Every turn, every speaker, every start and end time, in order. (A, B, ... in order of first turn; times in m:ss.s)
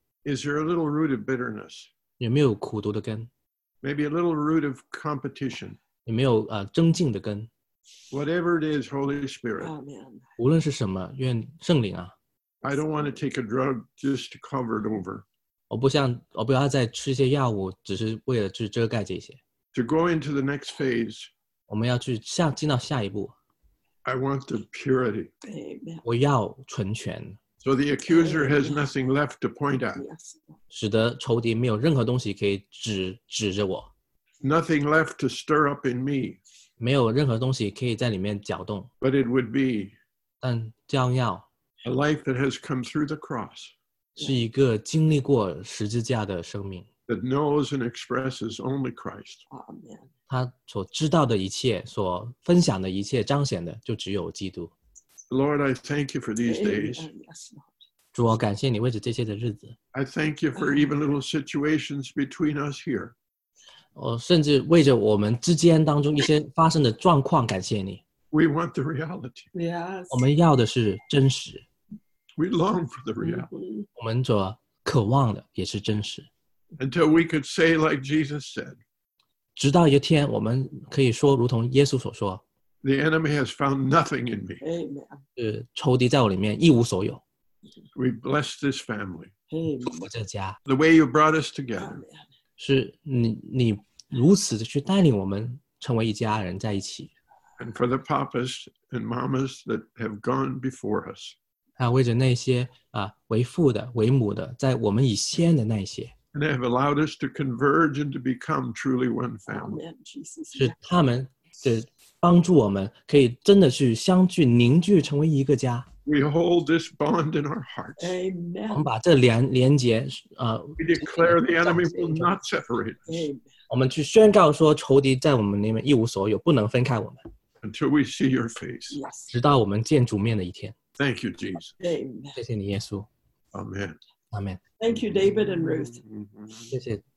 0:00.2-0:01.9 A
0:02.2-0:03.3 B
0:03.8-0:05.8 A
0:06.0-0:07.5 B
0:08.1-0:09.7 A
0:09.6-0:10.3 C
0:10.4-0:12.1 B
0:12.6-0:15.2 A
0:15.7-0:19.4 B
0:19.7-0:21.3 A
0:21.7-0:23.3 B
0:24.0-0:25.3 A
0:25.4-0:26.0 C
0:26.0-0:27.4 B
0:27.6-0:30.0 A
0:28.1-0:28.9 C
0:29.9-0:30.5 C
0:30.7-0:33.9 B
0:34.4-0:36.4 A
0:36.8-0:38.9 B
0:39.0-0:39.9 A
0:40.4-0:41.4 B
0:41.8-0:43.7 A
0:44.2-0:44.4 C
0:44.2-0:46.9 B
0:47.1-0:49.4 A
0:49.5-0:50.1 C
0:50.3-0:54.7 B
0:55.3-0:57.1 A
0:56.4-0:57.8 C
0:58.1-0:59.8 B
0:59.9-1:03.1 A
1:00.6-1:00.9 C
1:03.9-1:08.0 B
1:08.3-1:09.5 A
1:09.5-1:10.3 C
1:10.1-1:11.6 B
1:12.4-1:13.5 A
1:13.2-1:13.9 C
1:14.0-1:16.3 B
1:16.8-1:18.8 A
1:19.6-1:22.4 B
1:22.8-1:24.6 A
1:24.6-1:25.2 C
1:25.4-1:27.2 B
1:27.9-1:29.3 A
1:29.5-1:30.1 C
1:29.9-1:30.6 B
1:30.6-1:32.0 A
1:31.8-1:32.3 C
1:32.6-1:37.1 B
1:37.6-1:41.4 A
1:41.8-1:46.1 B
1:46.3-1:49.8 A
1:49.5-1:50.8 C
1:50.5-1:55.9 B
1:56.0-1:58.2 A
1:58.0-1:58.9 C
1:58.7-2:02.3 B
2:00.8-2:03.2 A
2:03.1-2:03.5 C
2:03.7-2:07.2 B
2:07.6-2:09.0 A
2:08.9-2:09.3 C
2:09.3-2:10.8 B
2:11.0-2:11.7 A
2:11.8-2:12.4 C
2:12.4-2:13.1 B
2:13.5-2:14.0 A
2:14.3-2:14.6 B
2:14.8-2:16.0 C
2:14.9-2:16.7 A
2:16.7-2:17.0 B